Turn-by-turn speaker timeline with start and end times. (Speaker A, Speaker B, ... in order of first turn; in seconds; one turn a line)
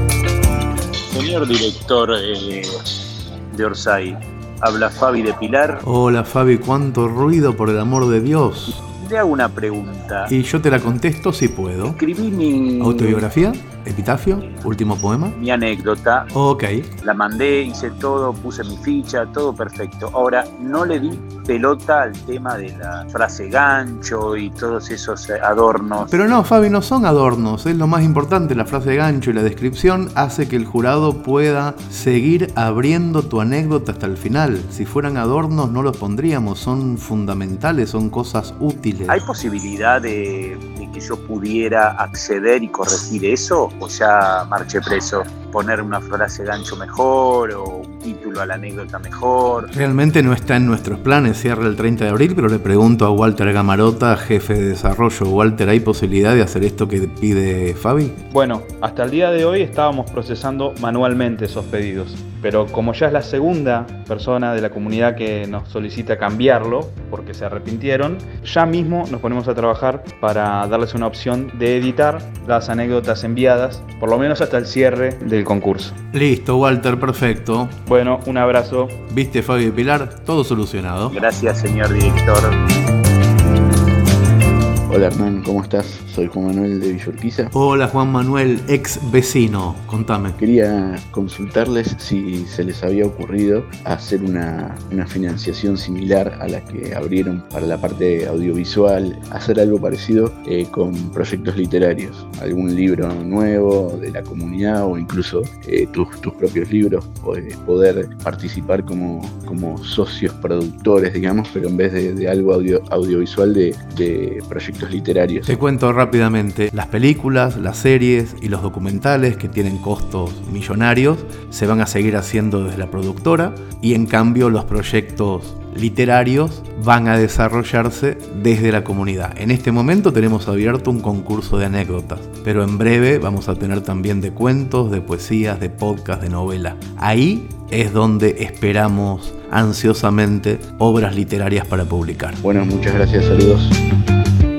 Speaker A: 1.1-3.0
Speaker A: 3.5-5.8
Speaker B: 5.8-8.8
Speaker A: 8.9-10.3
Speaker B: 10.3-12.0
Speaker A: 11.8-13.2
Speaker B: 12.8-15.3
Speaker A: 15.3-16.3
Speaker B: 16.3-16.9
Speaker A: 17.0-26.2
Speaker B: 26.0-39.2
Speaker A: 39.1-49.7
Speaker B: 49.7-58.2
Speaker C: 58.3-75.9
Speaker B: 76.1-77.8
Speaker C: 77.9-79.0
Speaker B: 79.1-81.2
Speaker A: 81.1-82.5
Speaker D: 84.9-87.5
Speaker B: 87.5-90.4
Speaker D: 90.4-115.6
Speaker B: 115.4-142.4
Speaker D: 142.4-143.8